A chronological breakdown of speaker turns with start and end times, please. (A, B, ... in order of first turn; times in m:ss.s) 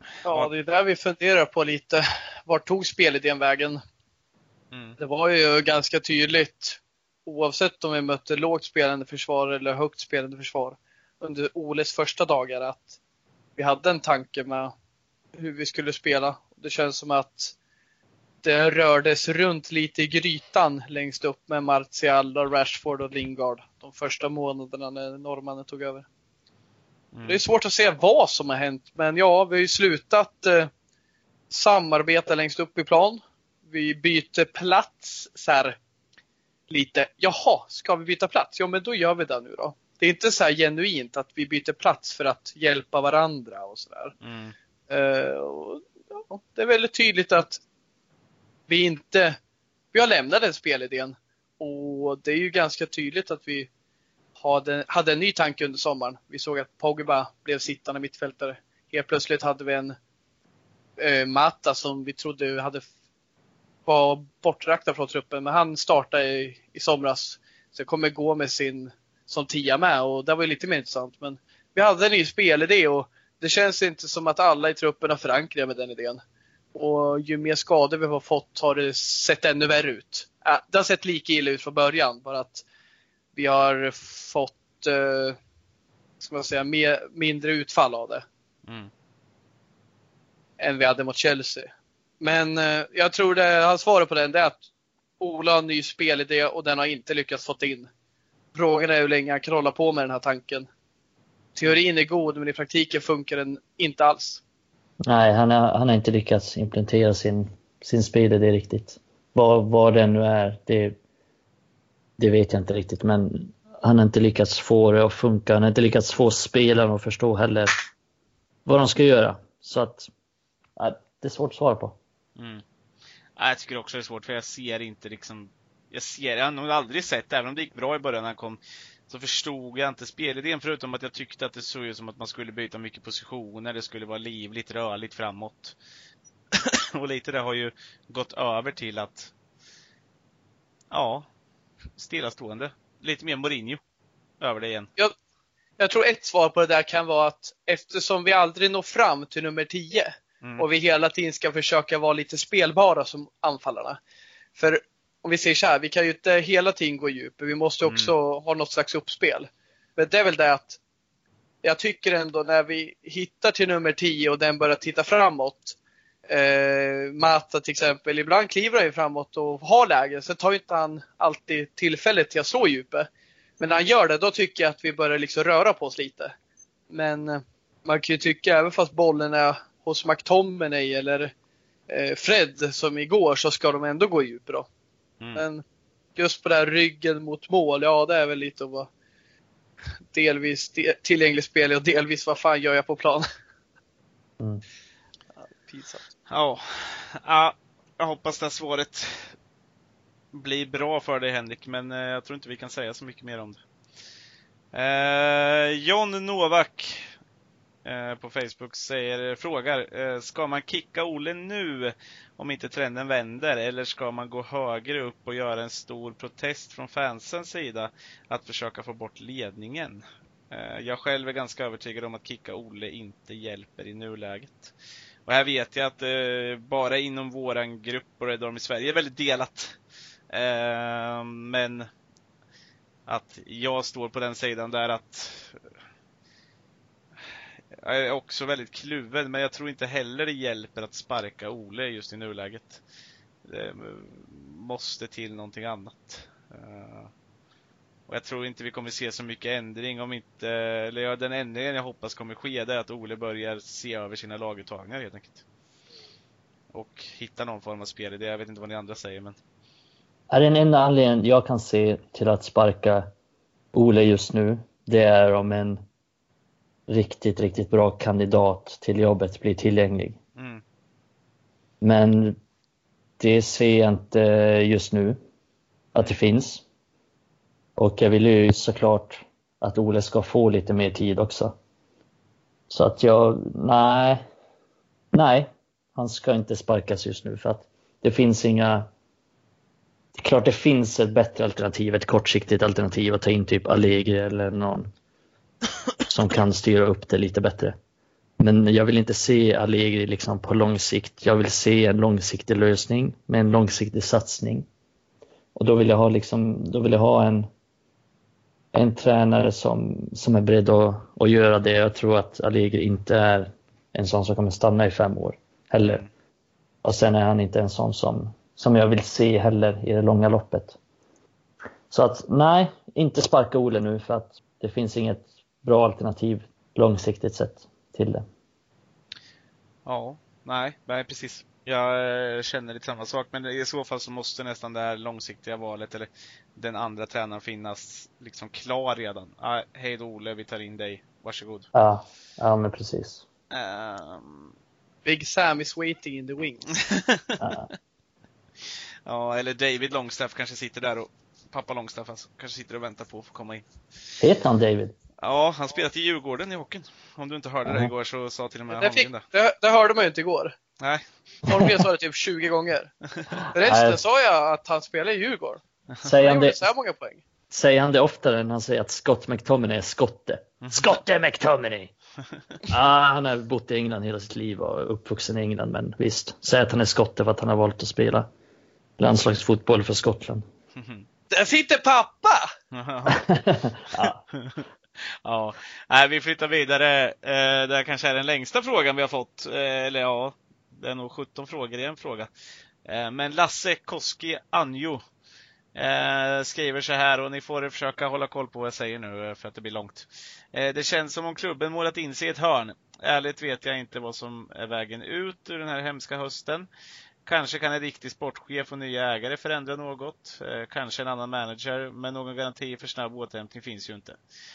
0:00.2-0:03.8 A
0:04.7-0:05.0 B
0:05.0-0:13.0 A
0:13.6-0:14.7 A
0:15.4-0:17.5 A
0:18.4-0:26.0 A
0:27.1-0:27.4 B
0:27.3-0:30.7 A
0:31.5-0:35.8 A
0:36.7-0:44.1 A
0:44.2-0:44.5 B
0:44.9-0:47.6 A
0:48.7-0:49.4 A
0:49.9-0:53.7 A
0:54.4-1:00.0 A
1:01.0-1:02.8 A
1:03.8-1:16.2 A
1:16.7-1:22.6 A
1:23.4-1:25.4 A
1:26.2-1:28.2 A
1:30.6-1:31.7 A
1:32.2-1:34.6 A
1:35.2-1:37.9 A
1:38.5-1:40.7 A
1:41.6-1:44.4 A
1:45.0-1:51.0 C
1:52.2-1:57.7 C
1:58.6-2:00.1 C
2:00.8-2:02.0 C
2:02.4-2:02.6 B
2:03.4-2:15.8 B
2:16.5-2:19.3 B
2:20.9-2:21.3 B
2:22.0-2:23.8 B
2:24.4-2:24.9 B
2:25.8-2:34.0 A
2:34.5-2:40.8 A
2:37.8-2:38.1 B
2:41.6-2:45.8 A
2:46.3-2:56.3 A
2:56.9-3:01.3 A
3:01.9-3:04.6 A
3:05.3-3:05.6 A
3:06.2-3:08.9 A
3:10.1-3:13.3 A
3:15.4-3:16.1 A
3:16.3-3:19.3 B
3:20.3-3:23.6 B
3:24.7-3:27.1 B
3:27.8-3:44.7 B
3:45.2-3:49.8 B
3:50.3-3:51.9 B
3:53.1-3:55.6 B
3:57.8-4:02.8 B
4:03.4-4:07.1 B
4:08.1-4:15.4 B
4:16.7-4:19.4 B
4:20.3-4:23.1 C
4:23.7-4:25.8 C
4:26.9-4:30.2 C
4:30.4-4:30.6 B
4:31.8-4:32.4 C
4:33.2-4:35.2 C
4:35.9-4:36.6 C
4:37.8-4:41.5 C
4:42.7-4:44.2 C
4:45.1-4:48.8 C
4:50.1-4:54.9 C
4:56.1-4:57.8 C
4:58.4-5:04.6 C
5:05.5-5:07.5 C
5:08.7-5:16.0 C
5:15.8-5:16.1 B
5:16.8-5:20.8 C
5:21.9-5:28.2 C
5:29.8-5:41.7 B
5:41.7-5:43.2 C
5:43.5-5:44.5 B
5:45.0-5:46.7 A
5:46.8-5:47.7 B
5:47.4-5:47.7 C
5:49.0-5:53.6 B
5:54.2-5:54.9 C
5:55.2-5:59.2 B
5:58.7-6:00.6 A
6:00.8-6:01.8 B
6:01.5-6:02.9 A
6:03.5-6:07.2 A
6:03.6-6:04.0 C
6:06.0-6:06.6 C
6:07.5-6:11.9 C
6:10.6-6:10.9 B
6:12.7-6:18.3 C
6:19.0-6:20.4 C
6:20.8-6:21.0 B
6:21.3-6:22.5 A
6:22.7-6:23.2 B
6:23.1-6:24.2 C
6:24.0-6:32.3 B
6:32.8-6:35.0 B
6:35.7-6:46.7 B
6:47.2-6:54.2 B